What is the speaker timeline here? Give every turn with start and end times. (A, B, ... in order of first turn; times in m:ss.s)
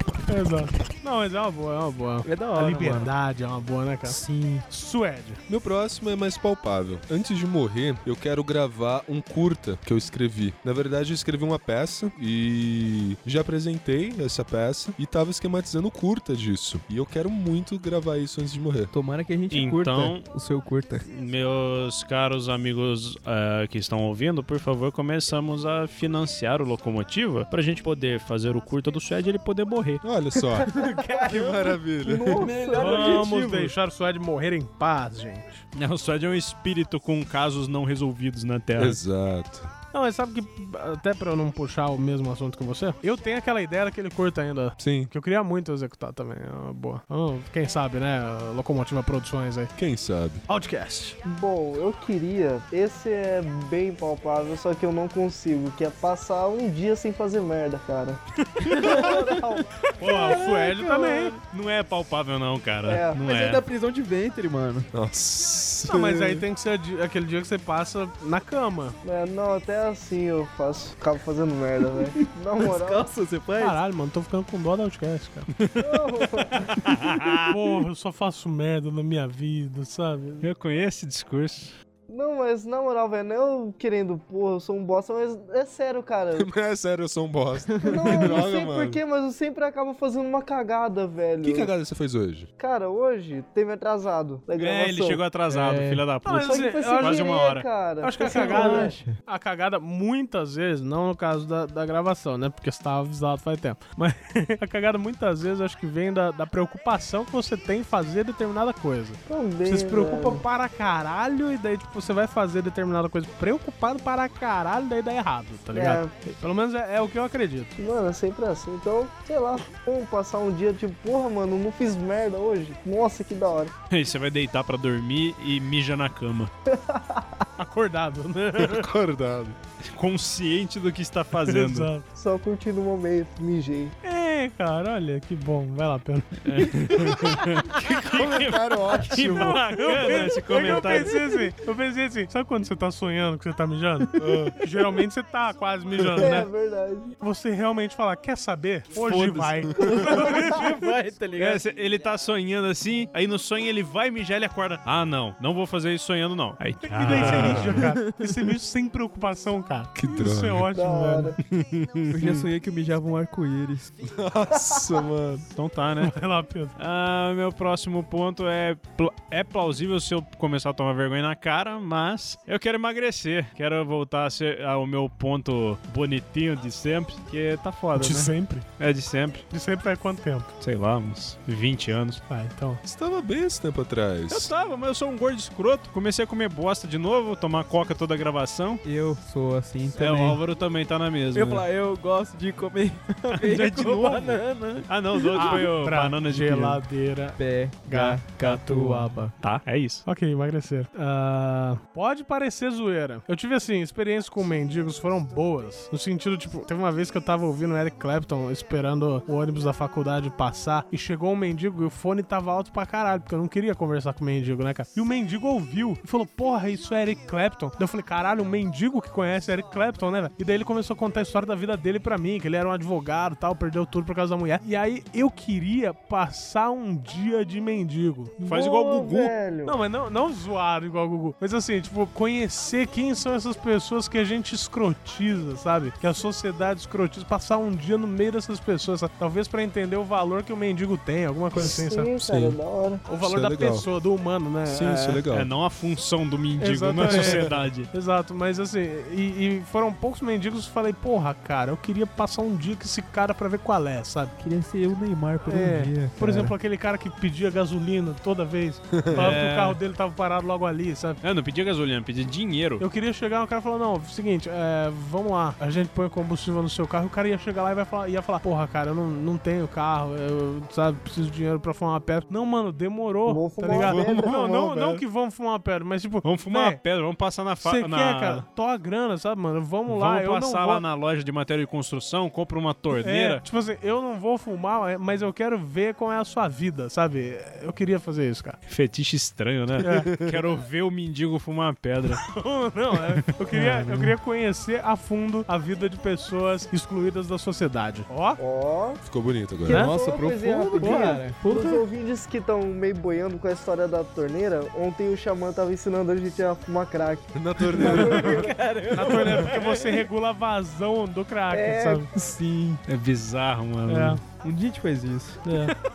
0:00.2-0:05.4 A
0:02.2-0:03.1 B
0:04.0-0:04.6 B
0:05.5-0:18.9 C
0:18.9-0:21.0 B
0:19.5-0:20.2 D
0:21.0-0:30.0 D
0:30.0-0:32.5 C
0:30.6-0:31.8 B
0:30.6-0:33.2 E
0:32.3-0:33.7 B
0:32.7-0:35.6 A
0:35.7-0:39.0 D
0:38.8-0:39.7 C
0:39.9-0:49.7 A
0:44.8-0:45.1 C
0:49.8-0:50.4 C
0:50.5-0:51.2 A
0:51.2-0:59.7 E
0:58.6-1:01.4 B
1:00.0-1:01.4 A
1:01.4-1:03.6 D
1:02.8-1:03.2 E
1:03.2-1:04.9 B
1:04.9-1:06.4 C
1:05.9-1:09.0 A
1:09.0-1:13.0 E
1:12.6-1:13.8 B
1:13.6-1:15.5 A
1:15.6-1:16.0 D
1:15.8-1:16.8 E
1:16.7-1:17.5 D
1:17.5-1:20.5 A
1:20.4-1:21.7 D
1:22.1-1:26.5 E
1:26.3-1:29.0 C
1:27.7-1:28.4 B
1:27.8-1:31.7 E
1:31.4-1:32.5 C
1:32.6-1:35.2 E
1:34.6-1:37.7 D
1:35.5-1:36.0 B
1:36.2-1:37.2 A
1:36.3-1:39.0 E
1:38.0-1:57.7 A
1:38.2-1:39.2 B
1:49.3-1:50.4 E
1:55.7-1:56.2 E
1:57.8-2:03.7 E
2:03.9-2:06.5 D
2:06.7-2:07.4 E
2:07.6-2:08.9 A
2:08.6-2:09.6 C
2:09.8-2:11.9 D
2:11.4-2:12.1 A
2:12.1-2:13.9 E
2:14.0-2:17.3 A
2:16.4-2:21.2 D
2:17.0-2:17.3 C
2:17.9-2:19.6 C
2:19.1-2:26.5 A
2:24.2-2:24.6 C
2:26.2-2:27.2 E
2:27.2-2:30.7 A
2:28.9-2:29.7 D
2:29.8-2:31.6 B
2:31.4-2:37.9 D
2:36.8-2:41.3 A
2:37.1-2:37.8 C
2:37.8-2:38.5 B
2:39.9-2:40.7 C
2:40.7-2:41.4 E
2:41.5-2:42.4 D
2:42.1-2:44.0 B
2:44.0-2:45.4 C
2:44.5-2:45.1 E
2:45.5-2:46.2 D
2:46.0-2:46.8 A
2:46.8-2:59.4 D
2:57.9-2:58.6 A
2:59.5-3:00.5 A
3:00.6-3:02.2 D
3:02.3-3:02.8 A
3:02.8-3:04.5 C
3:04.3-3:08.8 D
3:08.8-3:10.4 B
3:10.0-3:11.6 D
3:11.3-3:15.6 B
3:13.3-3:16.8 D
3:15.3-3:19.3 A
3:17.4-3:19.3 B
3:19.4-3:20.0 D
3:20.0-3:48.4 A
3:48.4-3:49.8 E
3:48.4-3:49.3 D
3:49.6-4:02.1 A
4:01.5-4:03.1 E
4:02.2-4:02.6 C
4:03.0-4:05.2 A
4:03.2-4:03.8 C
4:04.6-4:05.5 C
4:05.3-4:07.9 D
4:06.6-4:14.3 A
4:07.0-4:07.5 C
4:14.4-4:16.6 B
4:15.4-4:21.2 A
4:18.9-4:19.4 C
4:19.1-4:19.8 D
4:21.2-4:22.8 D
4:22.8-4:36.8 A
4:33.2-4:34.4 E
4:33.7-4:35.0 C
4:36.2-4:38.4 D
4:37.6-4:40.8 A
4:39.9-4:43.4 D
4:42.9-4:48.6 A
4:48.7-4:52.2 D
4:49.8-4:50.1 A
4:49.8-4:50.4 C
4:52.2-4:58.4 A
4:53.5-4:54.2 B
4:58.4-4:59.0 E
4:59.0-4:59.9 C
4:59.7-5:01.8 B
4:59.7-5:08.5 E
5:00.8-5:01.2 A
5:07.3-5:08.5 C
5:07.8-5:10.0 B
5:08.9-5:12.1 A
5:11.5-5:12.1 E
5:12.1-5:12.8 B
5:12.9-5:14.2 D
5:13.8-5:14.2 A
5:14.4-5:15.5 B
5:15.4-5:15.7 A